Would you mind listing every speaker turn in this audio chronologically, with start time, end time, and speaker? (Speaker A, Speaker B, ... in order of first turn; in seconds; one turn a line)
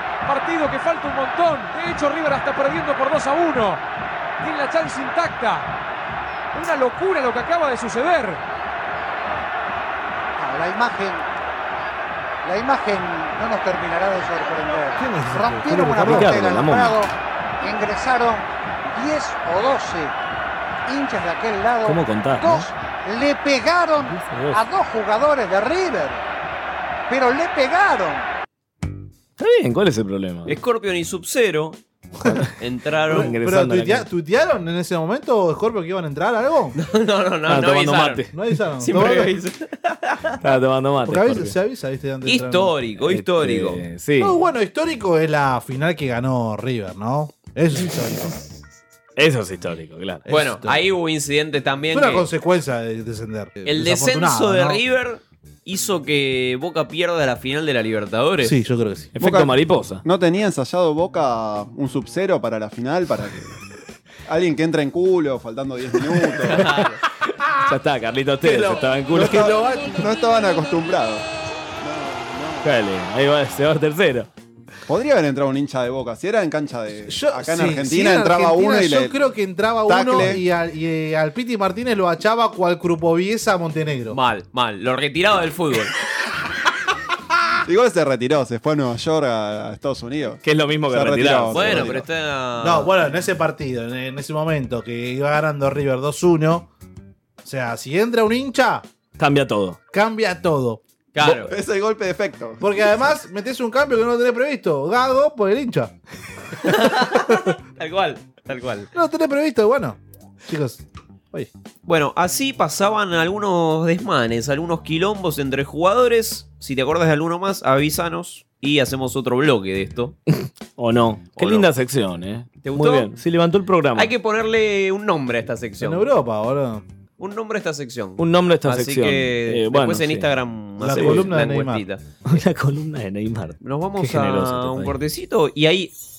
Speaker A: 0.2-3.8
Speaker A: 4.4-5.7
Speaker A: 6.5-8.4
Speaker B: 10.4-11.2
Speaker B: 12.4-20.1
Speaker C: 14.9-16.4
Speaker D: 16.0-17.0
Speaker B: 20.9-26.2
Speaker D: 21.8-22.7
Speaker D: 24.1-24.6
Speaker B: 27.1-28.3
Speaker D: 29.4-30.6
Speaker E: 30.5-31.8
Speaker E: 32.6-33.4
Speaker C: 33.1-36.8
Speaker D: 33.1-34.1
Speaker E: 36.8-38.2
Speaker D: 37.5-38.4
Speaker C: 38.3-39.3
Speaker E: 38.8-40.2
Speaker D: 40.4-41.5
Speaker C: 41.0-42.8
Speaker E: 42.3-43.8
Speaker D: 43.0-44.4
Speaker C: 44.2-48.5
Speaker D: 49.2-50.2
Speaker C: 50.3-50.9
Speaker E: 50.3-52.3
Speaker C: 51.9-54.8
Speaker E: 53.7-58.6
Speaker C: 58.4-59.1
Speaker D: 59.1-60.0
Speaker F: 59.2-63.6
Speaker F: 64.3-66.8
Speaker E: 66.5-67.0
Speaker D: 67.5-69.6
Speaker C: 68.4-70.0
Speaker F: 69.1-71.2
Speaker F: 71.8-72.7
Speaker D: 72.6-74.3
Speaker F: 74.9-79.2
Speaker C: 77.1-84.2
Speaker F: 79.9-80.4
Speaker E: 84.1-85.9
Speaker F: 87.7-92.1
Speaker D: 90.4-91.9
Speaker E: 91.5-92.9
Speaker C: 92.6-96.7
Speaker C: 97.4-98.8
Speaker D: 99.2-99.8
Speaker C: 99.9-100.8
Speaker E: 101.1-101.5
Speaker F: 101.2-103.0
Speaker C: 102.6-105.9
Speaker E: 106.6-108.9
Speaker C: 108.9-111.5
Speaker E: 111.8-120.2
Speaker D: 120.8-124.1
Speaker E: 121.4-121.7
Speaker E: 122.6-123.1
Speaker E: 124.0-126.1
Speaker C: 125.8-126.8
Speaker E: 127.2-132.0
Speaker D: 128.2-130.3
Speaker C: 130.8-131.8
Speaker D: 130.8-131.3
Speaker D: 132.3-134.9
Speaker E: 133.6-135.9